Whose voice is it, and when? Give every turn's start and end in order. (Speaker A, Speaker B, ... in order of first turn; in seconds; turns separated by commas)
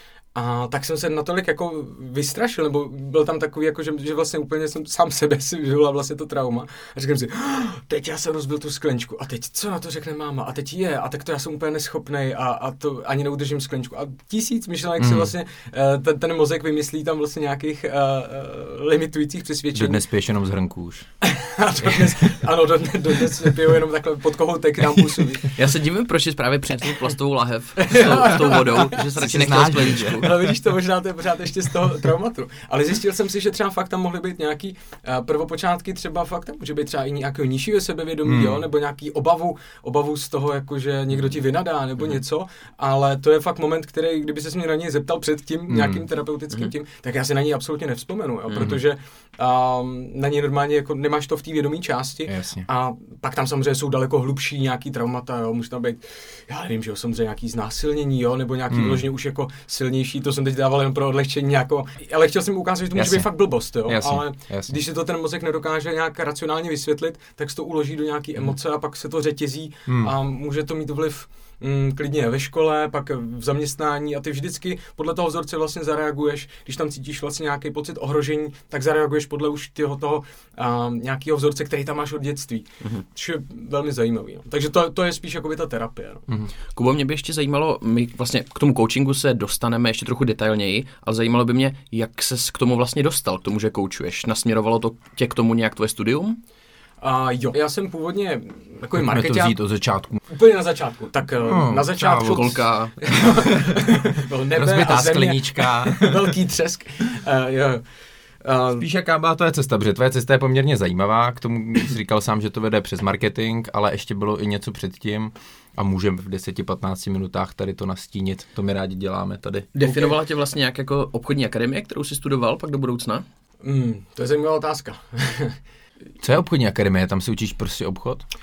Speaker A: 0.3-20.0, Speaker B: 15.0-15.3, Speaker B: 19.7-21.1, Speaker A: 21.2-25.5, Speaker C: 25.6-30.3, Speaker A: 27.8-86.3, Speaker B: 29.2-30.3, Speaker B: 38.2-38.6, Speaker B: 45.7-46.0, Speaker B: 52.3-52.6, Speaker B: 58.7-59.0, Speaker B: 62.9-64.8, Speaker B: 69.9-70.1, Speaker C: 86.7-96.4, Speaker A: 97.0-99.6, Speaker B: 99.0-100.2, Speaker A: 100.3-107.8, Speaker B: 101.5-102.4, Speaker C: 102.2-103.3, Speaker B: 104.5-106.3, Speaker A: 108.4-108.9, Speaker B: 108.8-119.7, Speaker C: 119.8-123.2, Speaker A: 119.8-120.2, Speaker A: 123.6-125.6, Speaker B: 126.2-128.2